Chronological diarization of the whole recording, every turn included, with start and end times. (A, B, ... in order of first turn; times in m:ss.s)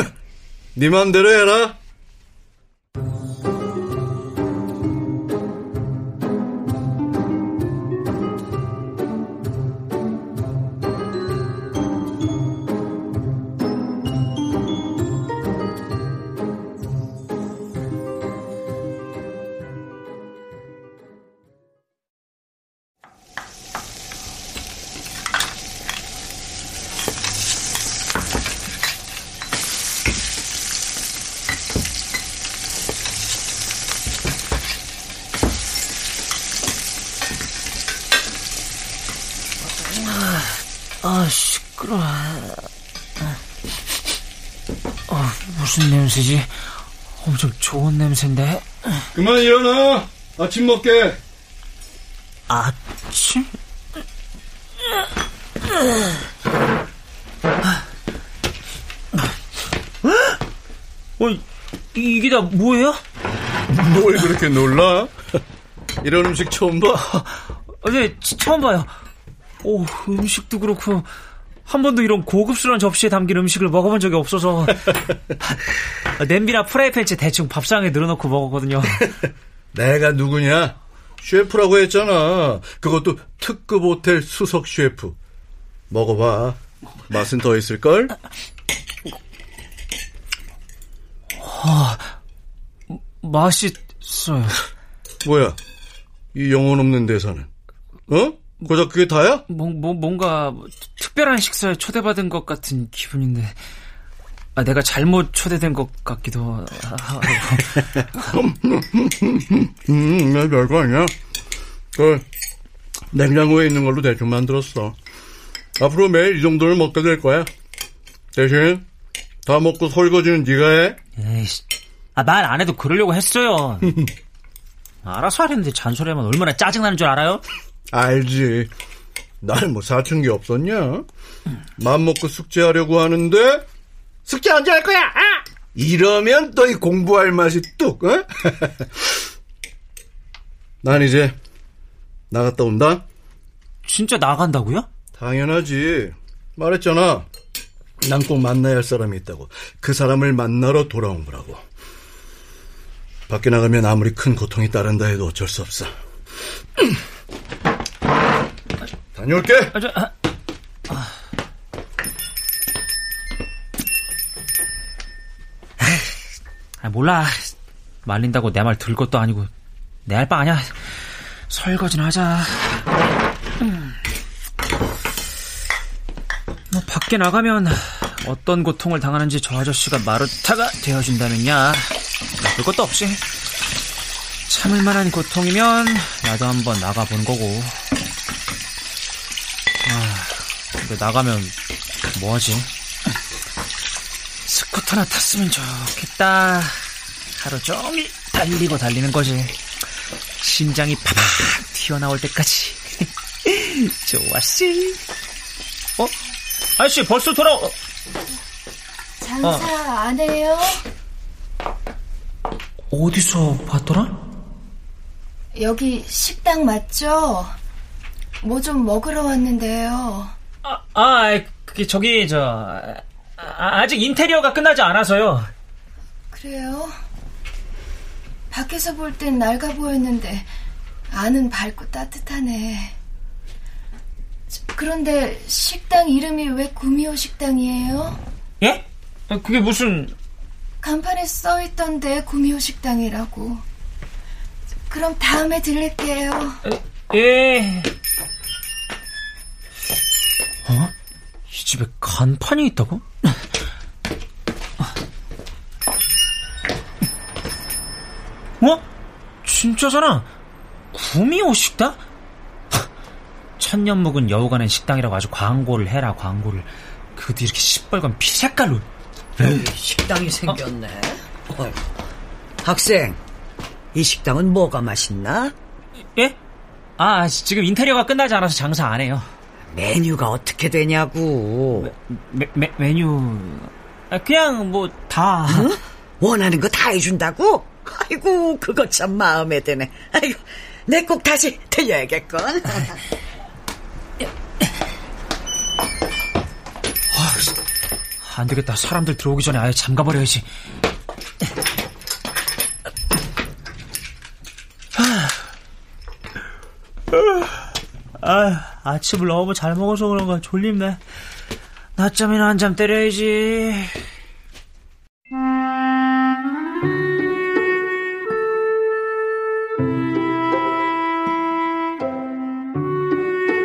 0:00.7-0:01.8 A
0:39.9-0:42.6 B
0:45.1-0:46.6 B
0:47.2-0:49.0 B
0:49.1-0:51.2 A
0:52.5-0:53.5 B
1:00.0-1:00.4 B
1:01.2-1:01.4 B
1:01.9-1:03.0 B
1:03.7-1:05.1 A
1:06.0-1:07.0 A
1:07.1-1:08.9 B
1:09.6-1:11.1 B
1:11.6-1:19.1 B
1:19.7-1:25.2 A
1:25.9-1:26.6 A
1:27.1-1:28.2 A
1:31.4-1:32.1 B
1:32.9-1:34.6 B
1:35.2-1:35.6 A
1:36.3-1:37.5 A
1:38.1-1:39.4 A
1:39.5-1:43.5 B
1:44.6-1:48.0 B
1:48.1-1:51.1 A
1:52.0-1:52.2 A
1:53.1-1:55.0 A
1:55.8-1:57.5 A
1:58.3-1:58.8 A
1:59.4-2:01.0 A
2:01.2-2:01.6 B
2:02.1-2:04.0 B
2:05.0-2:07.4 B
2:07.9-2:08.7 A
2:09.4-2:11.0 A
2:11.8-2:13.6 A
2:14.2-2:19.1 A
2:20.8-2:21.3 A
2:22.3-2:23.0 A
2:23.8-2:24.9 B
2:25.2-2:27.3 A
2:28.0-2:31.6 A
2:33.3-2:35.9 A
2:39.1-2:39.8 A
2:39.7-2:40.1 B
2:46.8-2:47.5 B
2:48.0-2:49.5 B
2:50.0-2:51.0 B
2:51.5-2:52.9 B
2:53.6-2:53.9 B
2:56.7-3:03.2 B
3:04.5-3:07.8 B
3:09.8-3:11.5 B
3:12.1-3:12.7 B
3:14.4-3:19.6 B
3:20.4-3:25.0 B
3:26.8-3:27.8 B
3:29.2-3:30.8 C
3:32.9-3:34.1 B
3:35.5-3:37.5 C
3:38.4-3:40.3 C
3:40.6-3:45.5 B
3:46.3-3:46.9 C
3:48.5-3:50.5 C
3:51.1-3:52.9 C
3:54.7-3:58.2 C
3:58.6-4:00.1 B
4:00.8-4:03.6 C
4:04.9-4:06.6 C
4:06.6-4:07.9 B
4:10.6-4:10.9 B
4:11.5-4:13.3 B
4:19.4-4:20.3 B
4:20.9-4:22.0 B
4:23.6-4:28.8 B
4:29.4-4:31.7 D
4:32.6-4:33.2 D
4:33.9-4:35.5 D
4:37.0-4:39.3 B
4:39.7-4:41.9 D
4:41.8-4:45.8 B
4:45.4-4:52.9 D
4:57.1-4:57.5 B
4:58.2-5:00.4 B
5:05.0-5:05.4 B
5:07.1-5:07.6 B
5:08.2-5:11.0 B
5:12.0-5:13.9 B